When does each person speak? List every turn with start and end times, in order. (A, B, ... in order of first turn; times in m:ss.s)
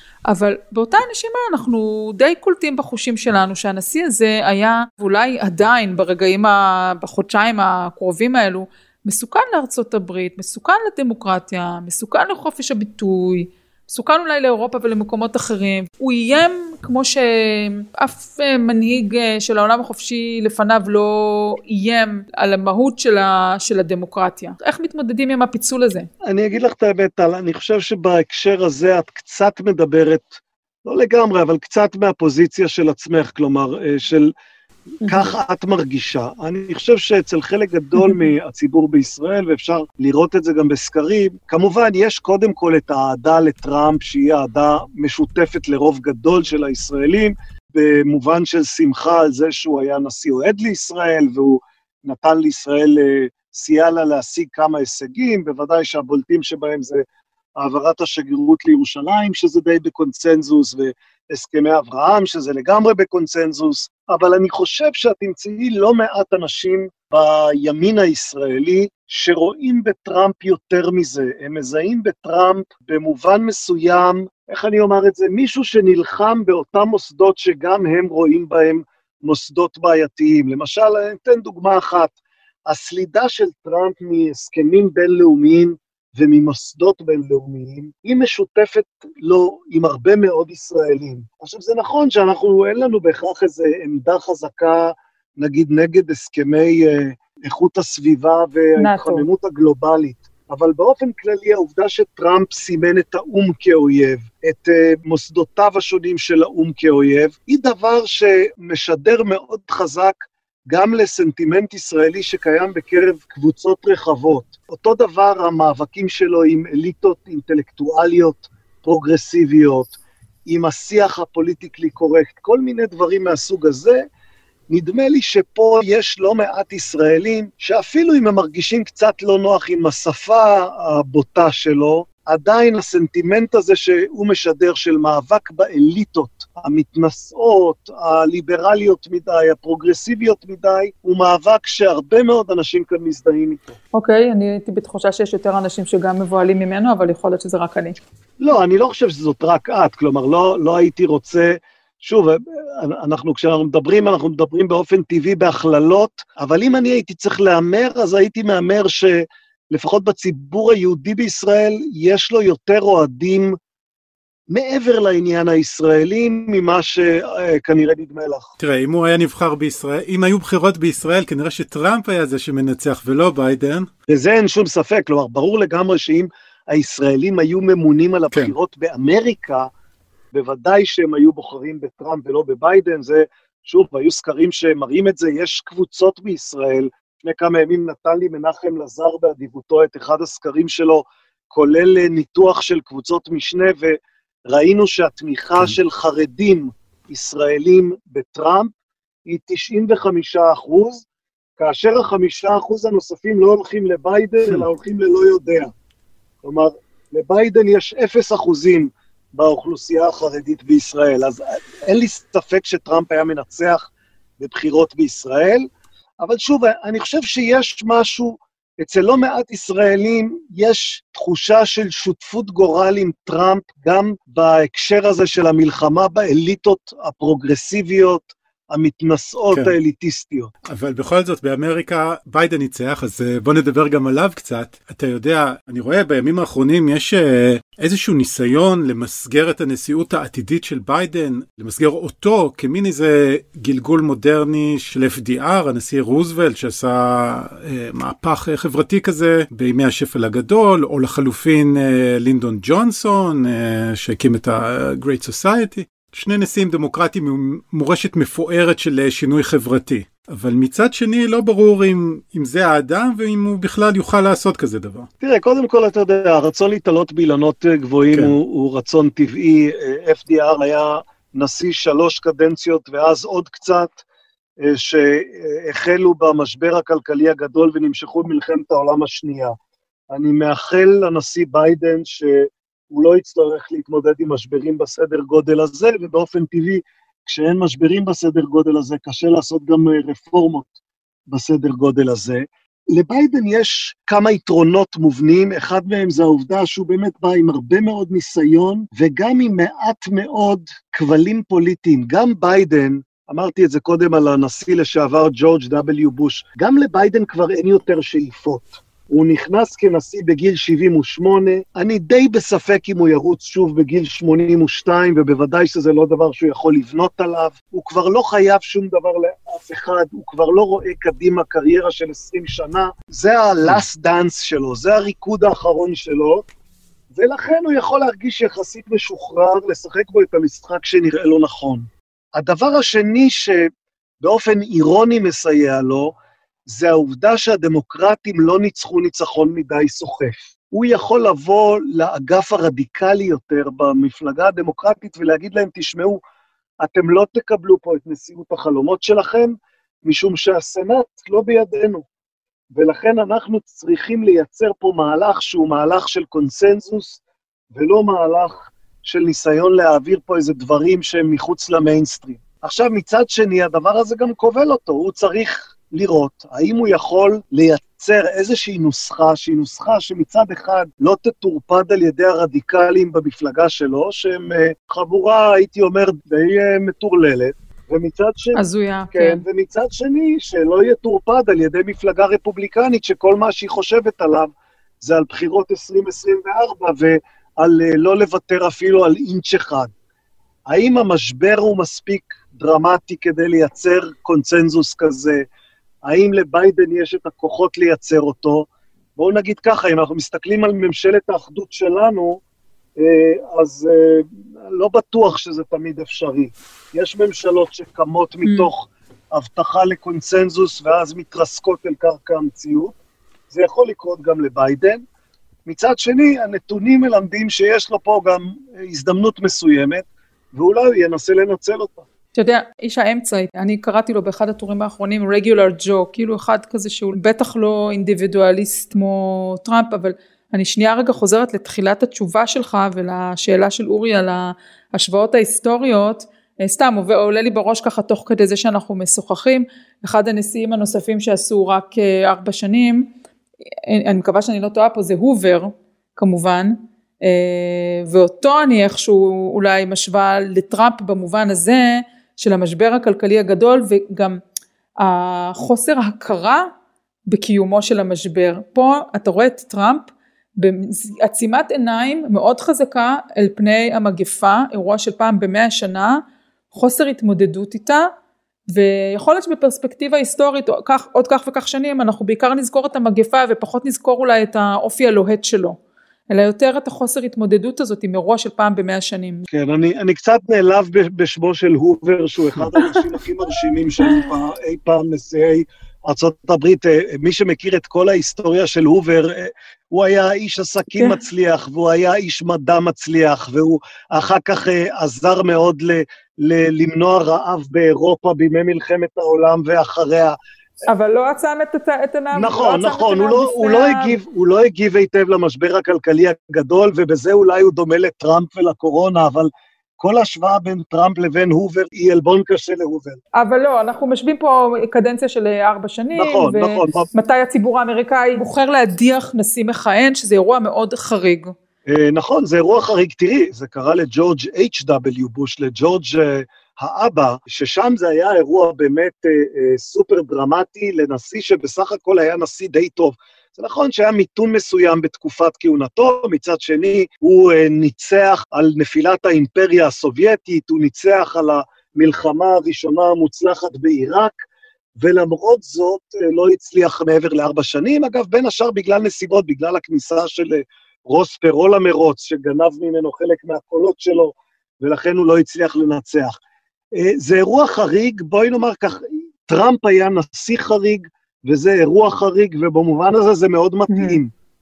0:00.3-0:26.1 A
0:26.2-0:34.3 B
0:35.0-0:57.0 B
0:38.0-0:38.2 A
0:57.6-1:22.1 B
1:22.7-2:00.0 B
1:38.8-1:39.3 A
2:00.5-2:04.0 B
2:04.7-2:23.8 B
2:23.9-2:28.0 A
2:28.4-2:43.6 B
2:44.5-2:48.5 B
2:48.6-2:53.9 C
2:54.1-2:59.7 B
3:00.3-3:18.7 B
3:19.3-3:21.0 B
3:21.6-3:25.7 B
3:26.4-3:33.9 B
3:34.4-3:35.7 B
3:36.2-3:50.5 B
3:50.6-4:25.1 C
4:25.2-4:34.0 B
4:34.6-4:39.5 B
4:40.1-4:50.7 B
4:51.3-5:26.4 B
5:27.1-5:33.6 B
5:34.2-5:36.1 B
5:36.7-5:46.2 B
5:46.8-5:52.0 B
5:52.7-5:57.2 B
5:57.7-6:29.9 B
6:18.5-6:19.4 A
6:30.7-6:35.4 B
6:36.0-6:42.4 B
6:43.0-6:53.0 B
6:48.4-6:48.7 A
6:53.5-6:55.0 B
6:55.6-7:02.0 B
7:02.4-7:23.1 A
7:23.9-7:34.4 A
7:35.0-7:36.7 A
7:37.3-7:40.1 A
7:40.6-7:46.2 A
7:46.7-7:48.1 A
7:48.7-7:55.8 A
7:56.3-7:59.4 A
7:59.5-8:20.4 B
8:10.9-8:11.2 A
8:20.9-8:24.2 A
8:22.3-8:33.2 B
8:33.4-8:41.5 A
8:36.1-8:37.1 B
8:41.9-9:04.4 B
9:05.0-9:16.4 B
9:16.9-9:24.3 B
9:23.9-9:24.2 A